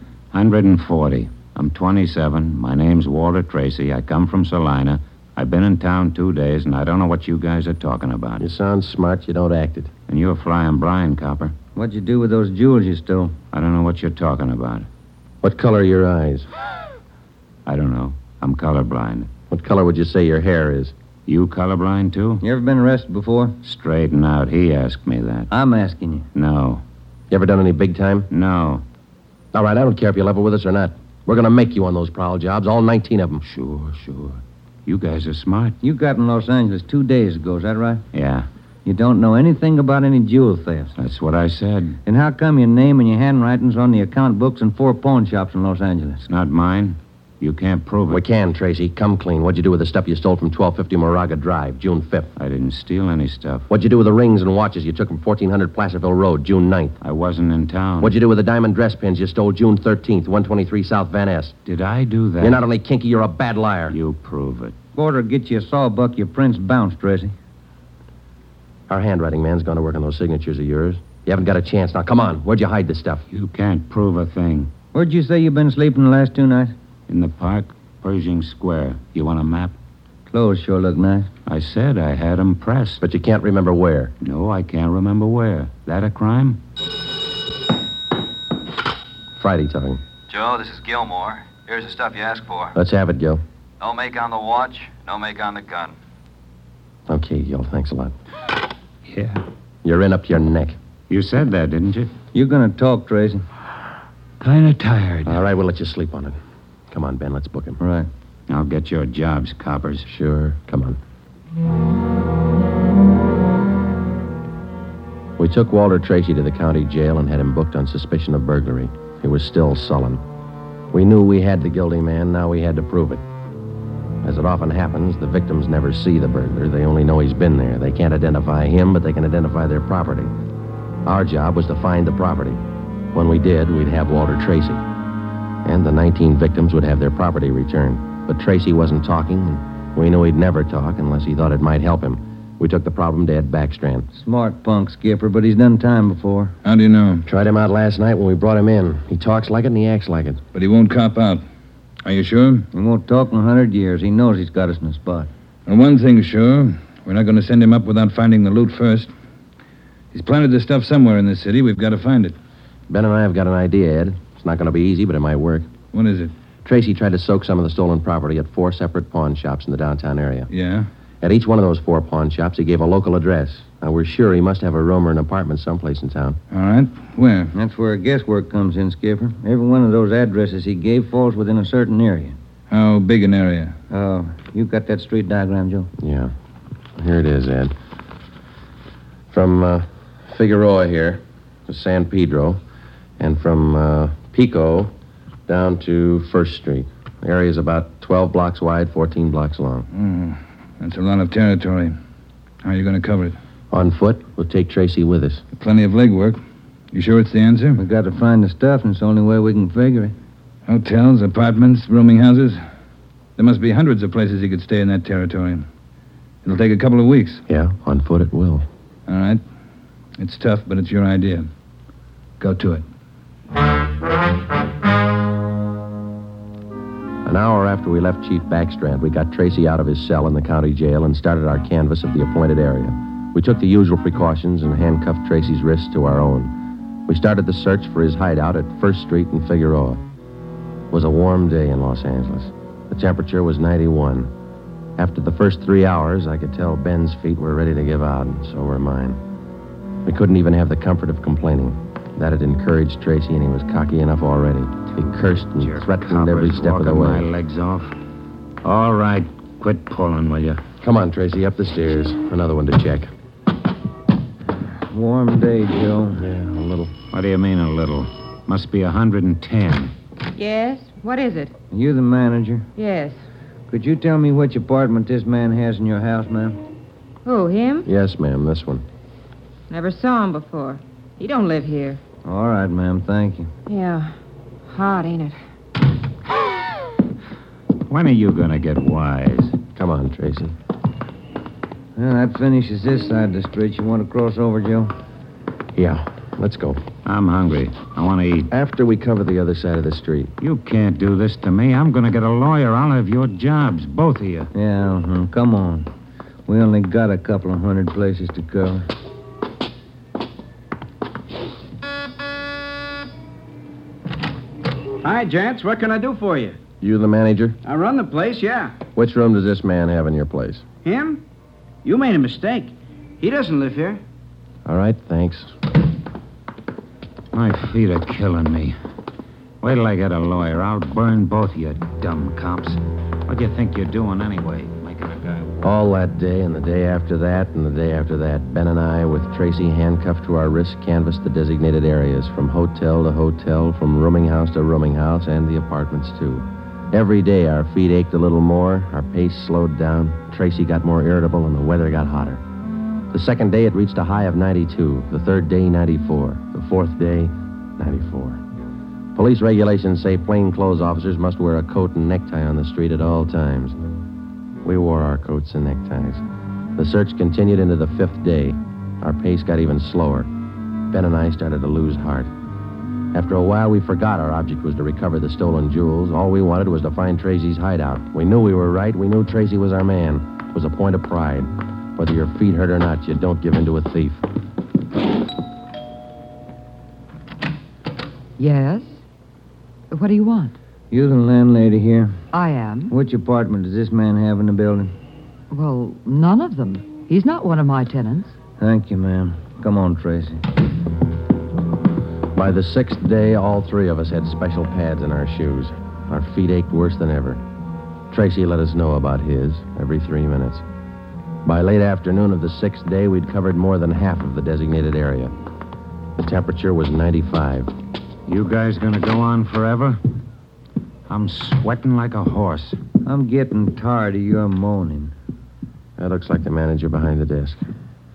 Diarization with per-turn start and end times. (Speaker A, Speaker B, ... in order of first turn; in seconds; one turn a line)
Speaker A: 0.3-8.4
Speaker B: 8.4-9.9
Speaker A: 10.1-11.5
Speaker C: 11.8-13.3
Speaker A: 13.5-14.9
Speaker B: 15.4-16.5
Speaker A: 17.6-19.3
Speaker B: 19.5-20.9
Speaker A: 21.3-22.4
Speaker C: 22.4-23.6
Speaker A: 23.6-25.5
Speaker C: 25.5-26.3
Speaker A: 26.3-26.8
Speaker B: 27.3-28.3
Speaker A: 28.3-28.8
Speaker B: 29.5-33.4
Speaker A: 33.4-35.8
Speaker C: 35.8-38.0
Speaker A: 38.1-38.5
Speaker C: 38.9-40.9
Speaker A: 41.0-42.0
Speaker C: 42.0-46.2
Speaker A: 46.2-48.2
Speaker B: 48.1-52.3
Speaker A: 52.4-53.7
Speaker B: 53.7-57.0
Speaker A: 57.0-58.1
Speaker B: 58.0-61.5
Speaker A: 61.6-62.6
Speaker B: 62.4-64.0
Speaker A: 63.9-64.8
Speaker C: 64.9-67.3
Speaker B: 68.9-73.2
Speaker A: 73.3-74.7
Speaker C: 74.9-76.7
Speaker A: 77.1-79.8
Speaker C: 80.3-81.3
Speaker A: 81.5-83.0
Speaker B: 83.0-84.1
Speaker A: 84.2-86.6
Speaker B: 89.3-90.0
Speaker D: 90.3-92.8
Speaker B: 92.7-93.4
Speaker D: 93.8-95.9
Speaker B: 97.1-98.1
Speaker A: 99.0-99.4
Speaker B: 99.8-100.8
Speaker A: 101.1-102.1
Speaker C: 102.3-103.4
Speaker A: 104.4-105.3
Speaker B: 105.2-106.4
Speaker B: 106.9-107.8
Speaker C: 107.8-108.1
Speaker A: 108.5-110.0
Speaker B: 110.0-111.0
Speaker B: 115.4-120.2
Speaker B: 120.9-123.2
Speaker B: 124.2-130.3
Speaker B: 131.0-132.6
Speaker B: 133.1-134.8
Speaker B: 135.6-144.1
Speaker C: 144.1-146.6
Speaker E: 146.6-147.2
Speaker B: 147.2-150.4
Speaker E: 150.5-151.4
Speaker E: 152.0-152.7
Speaker C: 152.7-155.3
Speaker E: 155.7-159.1
Speaker E: 160.1-162.3
Speaker B: 162.9-165.7
Speaker E: 165.9-166.3
Speaker B: 166.6-170.5
Speaker E: 170.5-170.9
Speaker B: 171.2-176.4
Speaker E: 176.5-177.5
Speaker C: 177.5-182.4
Speaker E: 182.7-183.8
Speaker C: 183.9-185.9
Speaker B: 186.0-186.3
Speaker B: 187.0-187.7
Speaker B: 189.3-192.6
Speaker B: 193.2-194.9
Speaker B: 195.5-199.9
Speaker E: 199.9-201.9
Speaker E: 202.6-203.4
Speaker B: 203.7-205.4
Speaker E: 205.6-206.4
Speaker E: 206.9-207.8
Speaker C: 207.8-210.1
Speaker E: 210.7-212.6
Speaker E: 213.4-215.7
Speaker E: 216.4-217.4
Speaker B: 217.5-218.7
Speaker E: 219.1-219.4
Speaker E: 220.2-221.5
Speaker E: 222.4-222.8
Speaker B: 227.2-236.5
Speaker B: 237.1-240.0
Speaker B: 240.9-244.3
Speaker B: 245.0-249.2
Speaker B: 250.0-257.3
Speaker A: 255.6-257.9
Speaker A: 258.6-260.6
Speaker B: 260.8-263.1
Speaker C: 264.9-266.2
Speaker B: 266.1-266.9
Speaker A: 267.1-269.9
Speaker F: 270.3-271.5
Speaker C: 271.7-272.7
Speaker F: 272.8-273.2
Speaker C: 273.7-276.6
Speaker F: 277.2-277.9
Speaker B: 277.8-278.8
Speaker F: 279.7-282.0
Speaker C: 282.2-283.5
Speaker F: 283.7-284.1
Speaker F: 284.7-285.4
Speaker A: 287.9-289.6
Speaker B: 289.8-290.5
Speaker C: 291.9-294.9
Speaker B: 295.7-296.8
Speaker A: 297.0-298.5
Speaker B: 298.5-300.3
Speaker A: 300.4-304.5
Speaker C: 304.5-305.9
Speaker C: 306.5-308.9
Speaker G: 315.0-316.6
Speaker B: 316.8-317.6
Speaker G: 317.6-318.8
Speaker B: 318.9-320.6
Speaker G: 320.8-321.2
Speaker G: 321.8-324.0
Speaker B: 324.6-325.5
Speaker A: 327.3-328.7
Speaker A: 329.6-335.6
Speaker B: 335.6-352.4
Speaker B: 353.1-358.4
Speaker B: 359.1-363.8
Speaker B: 364.6-366.2
Speaker B: 366.8-370.3
Speaker B: 370.9-372.3
Speaker B: 373.1-384.2
Speaker H: 388.4-389.0
Speaker H: 389.9-390.6
Speaker C: 390.9-392.2
Speaker H: 392.3-392.9
Speaker C: 392.9-394.9
Speaker H: 395.5-398.4
Speaker C: 398.6-400.4
Speaker B: 402.3-407.4
Speaker B: 408.1-410.6
Speaker B: 411.4-415.3
Speaker B: 416.2-417.7
Speaker A: 418.3-420.0
Speaker A: 421.1-422.8
Speaker C: 423.0-425.1
Speaker B: 426.0-427.6